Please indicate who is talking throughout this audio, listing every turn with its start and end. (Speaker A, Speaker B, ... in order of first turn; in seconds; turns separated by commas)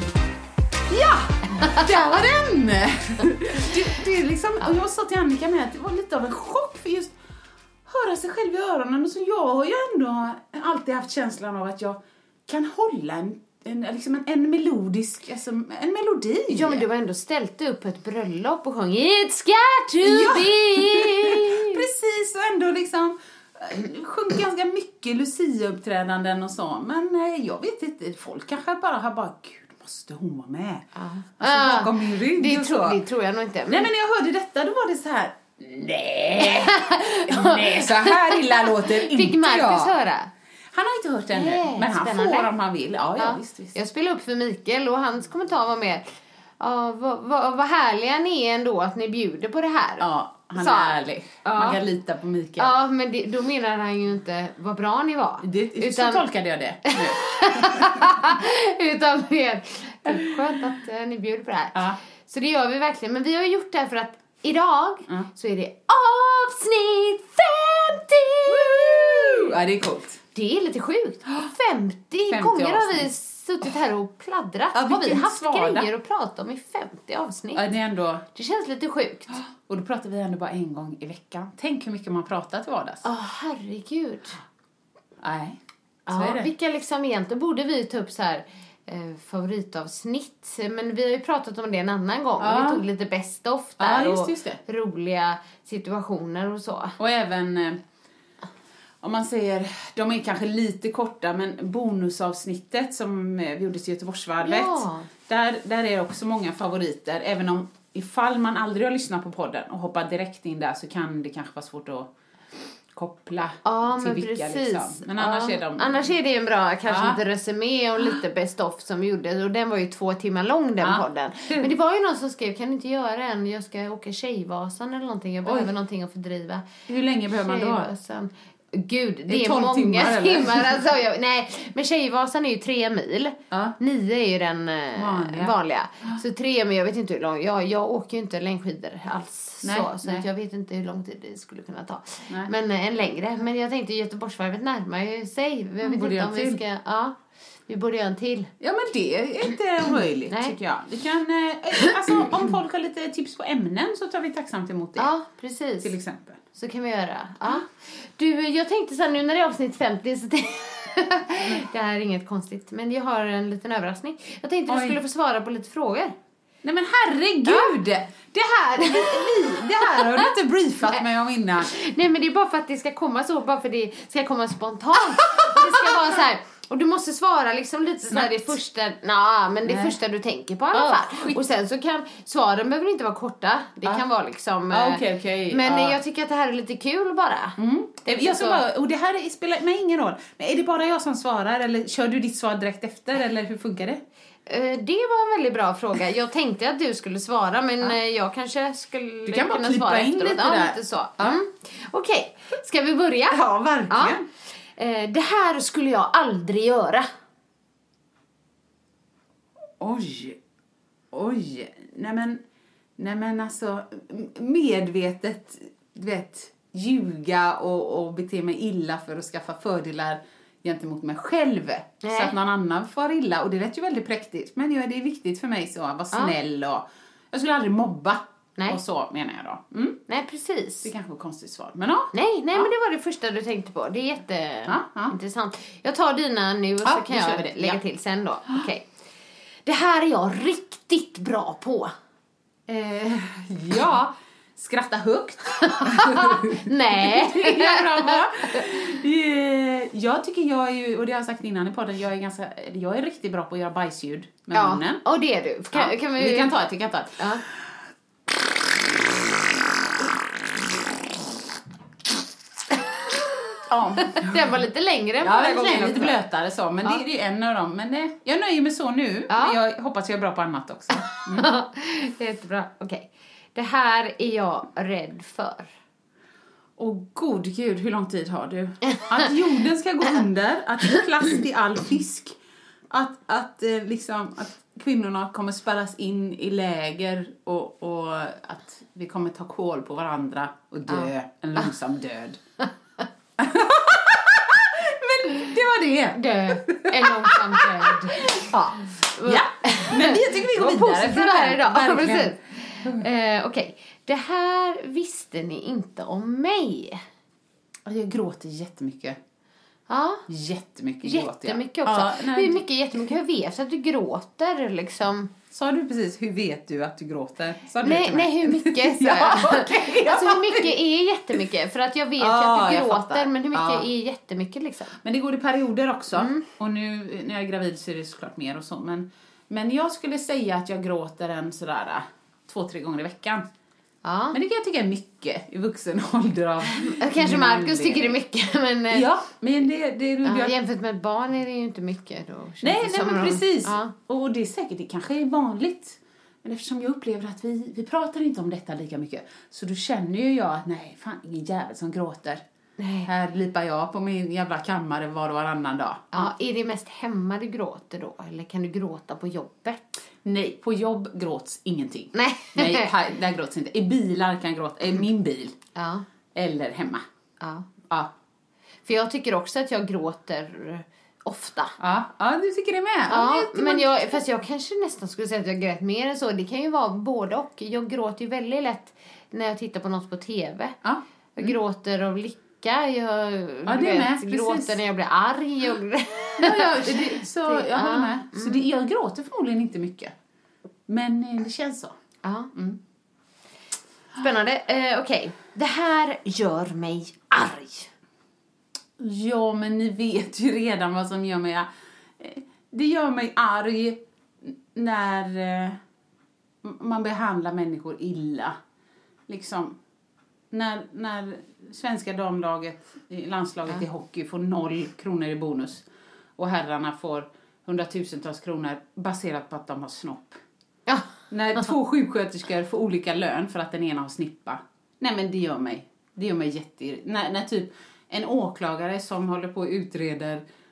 Speaker A: 0.9-7.1, Speaker A: 7.9-16.9, Speaker B: 16.5-21.8, Speaker A: 20.0-30.9, Speaker B: 31.0-33.9, Speaker A: 31.4-33.0, Speaker A: 33.7-39.9, Speaker B: 36.5-40.3, Speaker A: 40.7-43.8, Speaker B: 41.3-42.5, Speaker B: 43.2-46.1, Speaker B: 46.6-51.8, Speaker A: 50.0-52.8, Speaker B: 52.6-56.2, Speaker A: 55.4-58.2, Speaker B: 56.9-69.5, Speaker A: 68.5-70.2, Speaker B: 70.3-77.7, Speaker A: 72.3-73.1, Speaker A: 74.7-75.9, Speaker A: 77.5-78.2, Speaker B: 78.3-79.4, Speaker A: 79.3-83.0, Speaker B: 83.0-84.4, Speaker A: 85.2-86.5, Speaker B: 86.1-97.0, Speaker A: 92.4-92.8, Speaker A: 93.8-94.6, Speaker A: 97.0-97.8, Speaker A: 99.0-112.1, Speaker B: 104.4-105.1, Speaker A: 113.0-116.1, Speaker B: 113.7-126.7, Speaker A: 116.9-117.2, Speaker A: 120.8-121.7, Speaker A: 125.4-125.7, Speaker A: 126.9-127.9, Speaker B: 127.4-148.5, Speaker A: 129.3-130.8, Speaker A: 133.5-133.8, Speaker A: 135.0-136.2, Speaker A: 139.6-140.3, Speaker A: 145.8-146.6, Speaker A: 148.6-155.1, Speaker B: 150.3-150.6, Speaker B: 155.0-155.9, Speaker A: 155.8-156.4, Speaker B: 156.6-166.2, Speaker A: 164.7-165.0, Speaker A: 166.6-171.7, Speaker B: 167.4-167.8, Speaker B: 168.8-170.3, Speaker B: 171.6-188.6, Speaker A: 175.4-176.2, Speaker A: 178.1-178.6, Speaker A: 179.7-180.0, Speaker A: 180.7-181.4, Speaker A: 184.7-186.0, Speaker A: 187.6-194.0, Speaker B: 194.5-204.2, Speaker A: 199.3-201.4, Speaker A: 203.3-204.3, Speaker B: 204.8-207.1, Speaker A: 209.8-210.4, Speaker A: 211.1-212.4, Speaker A: 213.0-230.0, Speaker B: 222.0-222.4, Speaker B: 230.1-230.9, Speaker A: 230.8-232.7, Speaker B: 232.1-238.9, Speaker A: 234.7-235.1, Speaker A: 236.8-237.8, Speaker B: 239.7-241.9, Speaker A: 242.7-255.0, Speaker B: 245.6-248.7, Speaker B: 254.5-256.6, Speaker A: 255.7-257.6, Speaker B: 257.2-257.4, Speaker A: 263.7-264.5, Speaker B: 264.1-266.2, Speaker A: 265.2-271.5, Speaker B: 269.3-269.6, Speaker B: 271.4-275.7, Speaker A: 276.8-282.4, Speaker A: 282.9-292.4, Speaker A: 293.4-303.1, Speaker B: 296.1-298.5, Speaker B: 299.1-307.0, Speaker A: 307.9-309.2, Speaker B: 309.9-310.2, Speaker A: 310.3-313.1, Speaker B: 311.0-315.3, Speaker A: 315.5-320.8, Speaker B: 317.8-324.9, Speaker A: 322.2-323.9, Speaker A: 325.0-333.5, Speaker B: 326.2-326.5, Speaker B: 334.0-334.4, Speaker A: 334.3-338.2, Speaker B: 337.0-339.1, Speaker A: 338.9-340.6, Speaker B: 340.2-343.9, Speaker A: 342.6-352.4, Speaker B: 352.8-353.1, Speaker A: 353.1-356.3, Speaker B: 356.1-360.1, Speaker A: 360.2-365.6, Speaker B: 362.1-362.9, Speaker B: 365.8-366.0, Speaker A: 366.4-367.0, Speaker B: 367.4-367.7, Speaker B: 368.9-371.8, Speaker A: 371.8-374.2, Speaker B: 373.1-380.8, Speaker A: 380.8-381.6, Speaker B: 381.4-388.7, Speaker A: 383.7-384.8, Speaker A: 386.4-390.1, Speaker A: 390.9-392.0, Speaker B: 392.2-392.5, Speaker A: 392.5-392.8, Speaker B: 394.2-397.9, Speaker A: 399.0-405.8, Speaker A: 406.6-408.6, Speaker A: 409.3-409.8, Speaker A: 410.5-415.9, Speaker A: 416.4-420.4, Speaker B: 420.9-421.7, Speaker A: 421.3-430.4